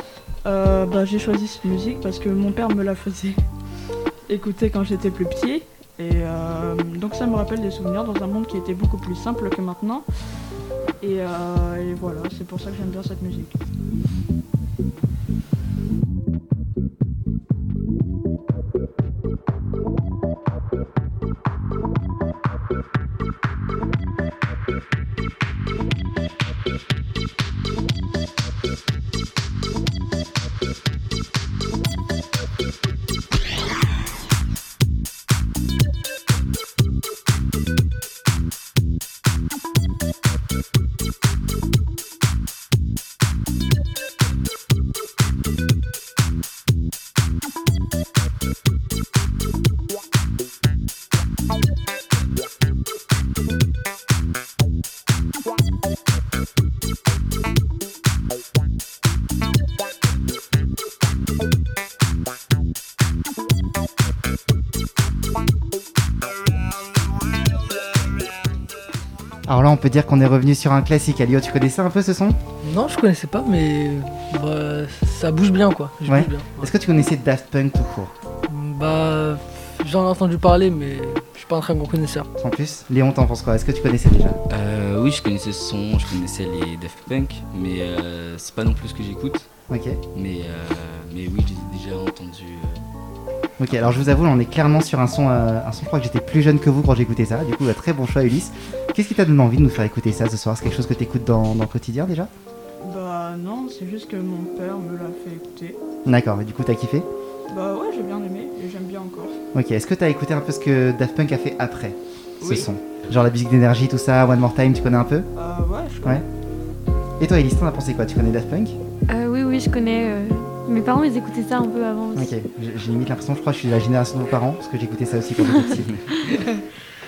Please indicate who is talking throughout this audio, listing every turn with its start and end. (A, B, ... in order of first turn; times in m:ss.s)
0:00.4-0:03.4 A
0:04.3-0:10.0 A
0:11.0-0:13.5 A
1:09.5-1:12.4 B
1:12.6-1:16.7 C
1:16.1-1:18.1 B
1:18.5-1:22.3 C
1:22.4-1:24.4 B
1:24.5-1:29.5 D
1:29.7-1:30.0 B
1:30.1-1:32.8 D
1:33.6-1:42.3 B
1:42.8-1:45.8 A
1:46.0-1:47.1 B
1:47.5-1:49.4 A
1:49.5-1:55.3 B
1:52.4-1:52.7 A
1:55.3-1:56.2 A
1:57.2-1:58.8 B
1:59.1-2:02.3 E
2:02.1-2:06.0 B